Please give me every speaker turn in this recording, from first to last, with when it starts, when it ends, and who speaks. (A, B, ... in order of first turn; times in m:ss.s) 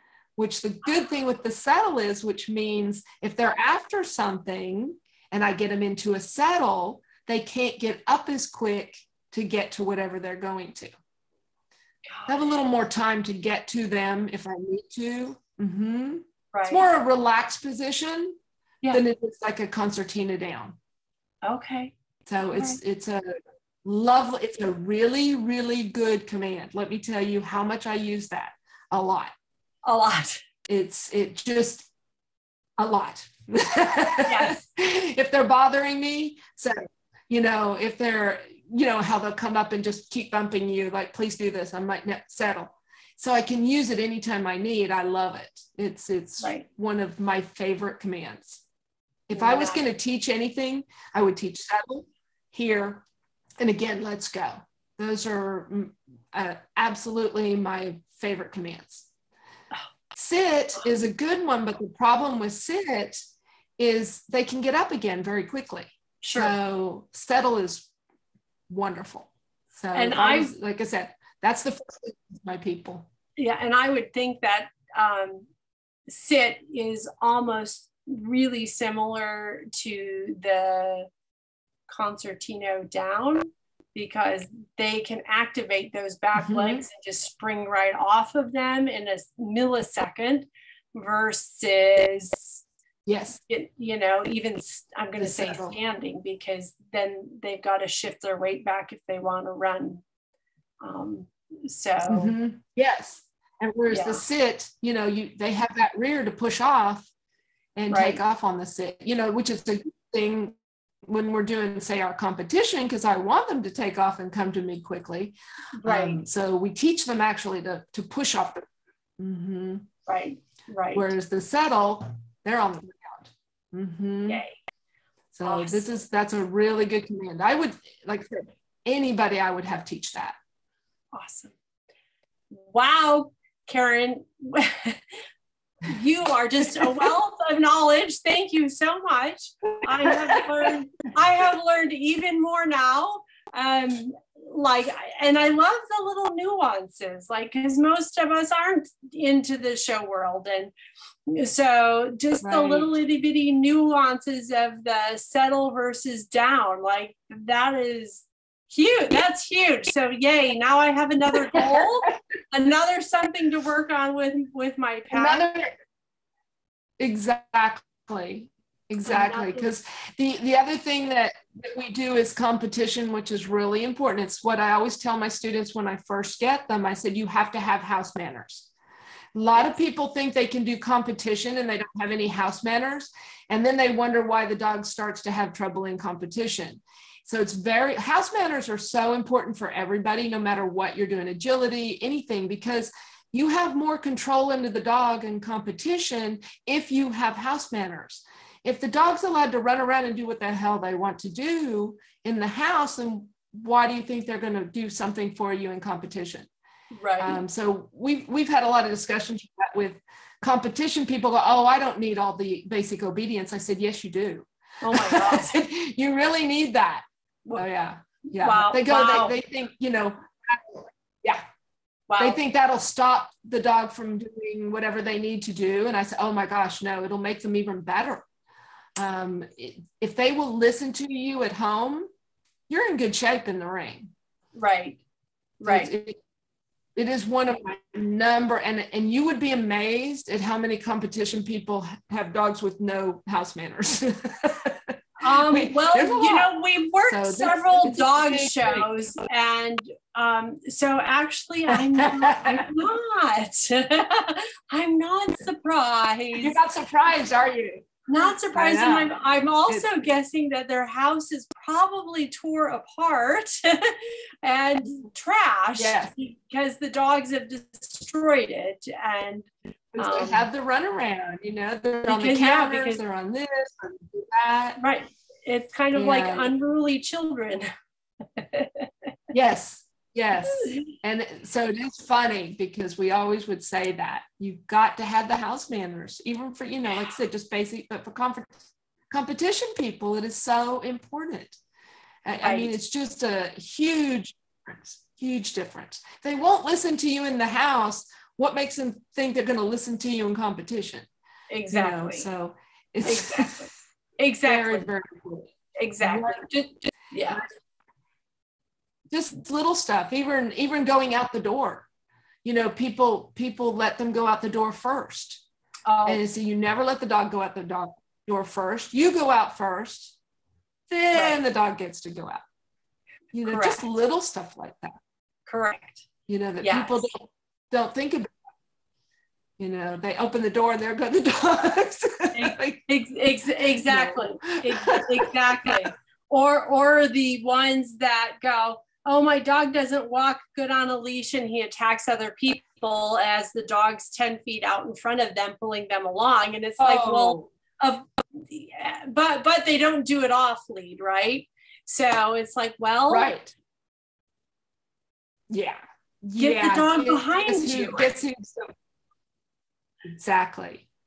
0:00.4-0:10.9 A
0:12.1-0:12.6 B
0:12.3-0:18.4 A
0:16.5-0:16.8 B
0:18.9-0:20.8 A
0:21.4-0:22.8 B
0:22.3-0:23.2 A
0:23.8-0:29.3 A
0:29.8-0:30.4 B
0:30.7-0:31.9 A
0:32.8-0:48.6 A
0:34.3-0:34.6 B
0:49.3-0:53.0 A
0:49.3-0:49.8 B
0:53.6-0:59.1 A
1:00.1-1:03.2 A
1:03.8-1:07.9 A
1:06.2-1:06.5 B
1:08.7-1:13.1 A
1:09.9-1:10.5 B
1:13.4-1:15.5 B
1:16.1-1:21.1 B
1:21.9-1:32.6 B
1:26.4-1:26.8 A
1:33.0-1:33.4 A
1:33.5-1:40.0 B
1:35.2-1:35.8 A
1:40.8-1:42.3 B
1:42.0-1:47.1 A
1:43.9-1:44.2 B
1:47.8-1:58.6 A
1:47.9-1:48.2 B
1:55.8-1:56.2 B
1:59.2-1:59.9 A
2:00.1-2:01.1 B
2:00.9-2:04.4 A
2:04.3-2:04.6 B
2:05.3-2:10.3 A
2:05.4-2:06.0 B
2:11.1-2:11.5 B
2:12.5-2:15.0 B
2:15.8-2:30.7 B
2:16.8-2:17.0 A
2:20.0-2:20.7 A
2:31.3-2:45.5 B
2:32.4-2:32.9 A
2:41.5-2:42.1 A
2:45.1-2:45.7 A
2:47.0-2:58.7 A
2:49.0-2:49.7 B
2:59.3-3:26.5 A
3:26.9-3:27.4 B
3:27.2-3:37.0 A
3:34.8-3:35.6 B
3:37.6-3:41.4 A
3:38.4-3:39.3 B
3:42.1-3:42.4 B
3:42.2-3:48.2 A
3:49.0-3:52.1 A
3:52.7-3:54.1 A
3:54.6-3:55.0 B
3:55.6-3:55.9 B
3:55.6-3:56.2 A
3:57.0-4:06.5 A
4:05.2-4:16.6 B
4:07.1-4:08.9 A
4:11.7-4:12.7 A
4:16.4-4:17.9 A
4:18.1-4:30.5 B
4:18.5-4:19.1 A
4:25.7-4:26.1 A
4:29.9-4:34.8 A
4:32.1-4:33.0 B
4:34.8-4:37.7 B
4:35.9-4:36.5 A
4:38.4-4:38.9 B
4:39.3-4:51.6 A
4:40.4-4:40.9 B
4:52.2-5:01.1 A
4:52.4-4:52.7 B
5:01.5-5:02.3 B
5:01.7-5:03.6 A
5:03.0-5:04.9 B
5:04.4-5:06.5 A
5:05.8-5:07.4 B
5:09.1-5:11.9 A
5:12.4-5:15.4 A
5:15.9-5:16.2 B
5:16.0-5:20.2 A
5:20.9-5:22.4 A
5:21.1-5:21.4 B
5:23.3-5:24.9 A
5:23.5-5:23.8 B
5:25.5-5:26.0 B
5:26.3-5:28.3 A
5:26.6-5:27.1 B
5:29.6-5:32.8 A
5:32.3-5:53.3 B
5:33.9-5:35.8 A
5:46.8-5:47.5 A
5:53.1-5:53.5 A
5:55.5-5:58.7 A
5:56.4-5:58.1 B
6:00.1-6:00.9 A